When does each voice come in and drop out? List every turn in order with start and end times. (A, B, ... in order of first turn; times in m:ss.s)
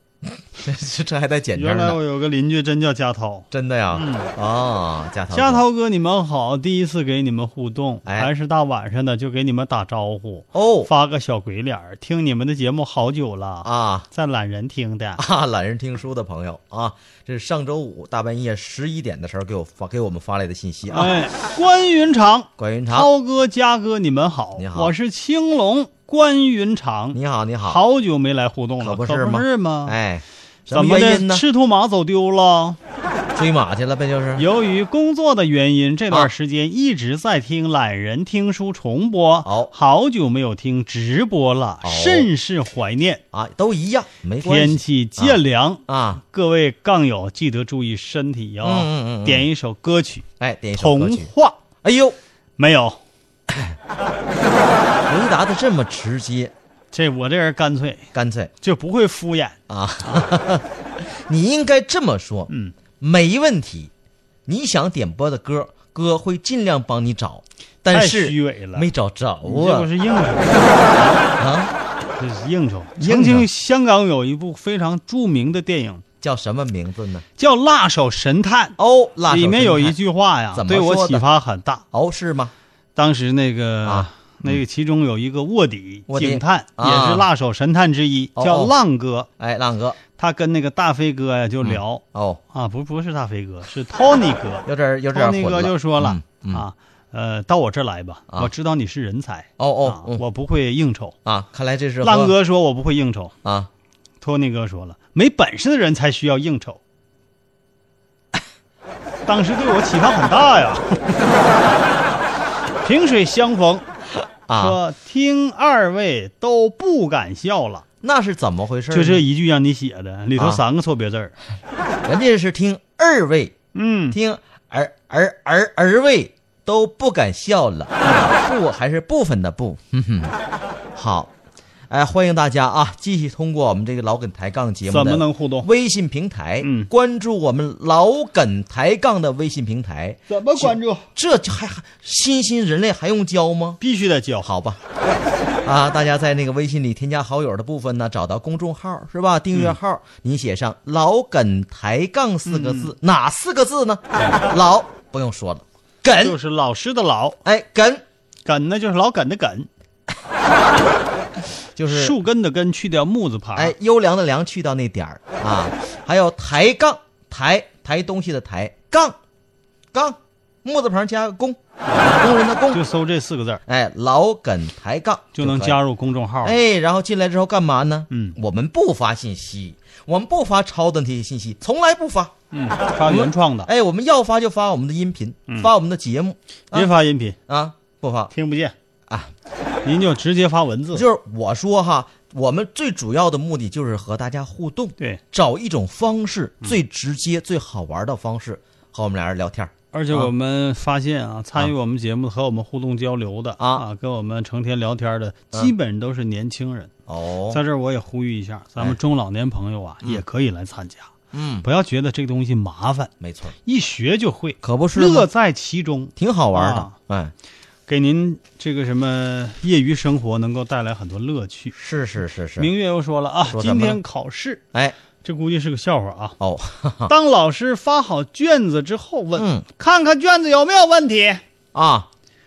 0:00.2-0:02.0 A
0:01.6-0:04.3 B
0:03.5-0:05.6 A
0:05.3-0:15.2 B
0:08.1-0:08.3 A
0:10.5-0:10.9 A
0:13.6-0:14.1 A
0:15.2-0:21.2 A
0:20.9-0:30.0 B
0:22.6-0:23.1 A
0:24.6-0:24.9 A
0:27.1-0:27.8 A
0:28.8-0:31.4 A
0:30.7-0:32.8 B
0:33.3-0:34.5 A
0:34.4-0:43.2 B
0:39.4-0:39.7 A
0:41.8-0:42.3 A
0:43.3-0:46.2 A
0:44.4-0:51.6 B
0:48.6-0:49.5 A
0:50.4-0:51.3 A
0:51.8-0:52.2 A
0:52.6-0:53.0 B
0:53.5-0:53.8 A
0:55.1-0:56.5 A
0:56.9-0:58.1 B
0:58.1-0:58.5 A
0:58.6-1:00.3 B
0:59.7-1:03.9 A
1:02.5-1:02.8 B
1:04.5-1:09.9 A
1:07.9-1:08.9 B
1:09.4-1:11.3 B
1:11.4-1:11.7 A
1:12.2-1:16.0 B
1:13.0-1:13.5 A
1:16.2-1:17.2 A
1:17.4-1:21.8 B
1:18.8-1:20.0 A
1:20.5-1:21.3 A
1:21.9-1:22.5 A
1:23.0-1:29.3 B
1:23.8-1:24.6 A
1:26.1-1:27.3 A
1:28.4-1:28.7 A
1:29.4-1:30.0 A
1:30.2-1:41.2 B
1:31.6-1:32.4 A
1:34.7-1:36.7 A
1:39.6-1:40.2 A
1:41.2-1:42.4 A
1:42.0-1:43.3 B
1:43.4-1:43.7 A
1:44.2-1:46.8 B
1:49.2-1:51.0 B
1:52.8-1:53.8 B
1:54.5-1:54.8 A
1:54.6-1:57.8 B
1:58.0-1:59.3 A
1:58.9-2:01.4 B
2:00.4-2:00.6 A
2:02.0-2:03.6 A
2:03.8-2:04.2 B
2:04.1-2:10.3 A
2:11.0-2:11.3 A
2:11.9-2:23.8 A
2:14.9-2:15.7 B
2:16.6-2:16.9 B
2:20.3-2:21.1 B
2:23.8-2:24.5 B
2:24.4-2:24.8 A
2:25.6-2:36.4 A
2:32.5-2:32.9 B
2:36.1-2:37.4 B
2:37.4-2:38.0 A
2:38.4-2:39.7 B
2:41.8-2:42.2 A
2:41.9-2:43.7 B
2:43.6-2:49.2 A
2:49.9-2:52.8 A
2:51.9-2:52.2 B
2:52.7-2:53.6 B
2:53.7-2:55.8 A
2:55.3-2:56.6 B
2:56.4-3:02.4 A
2:58.1-2:58.4 B
3:02.5-3:03.7 B
3:03.0-3:06.9 A
3:06.7-3:07.4 B
3:07.5-3:08.3 A
3:08.3-3:08.8 B
3:09.8-3:11.0 B
3:10.9-3:20.3 A
3:19.9-3:26.9 B
3:23.6-3:23.9 A
3:27.1-3:27.6 A
3:27.5-3:31.1 B
3:31.3-3:31.7 A
3:31.6-3:37.0 B
3:33.2-3:33.6 A
3:34.6-3:35.3 A
3:36.2-3:37.3 A
3:37.9-3:41.7 B
3:41.8-3:42.7 A
3:42.6-3:44.6 B
3:43.5-3:44.0 A
3:45.2-3:46.4 B
3:46.4-3:47.1 A
3:47.1-3:51.4 B
3:49.4-3:49.6 A
3:51.7-3:52.1 A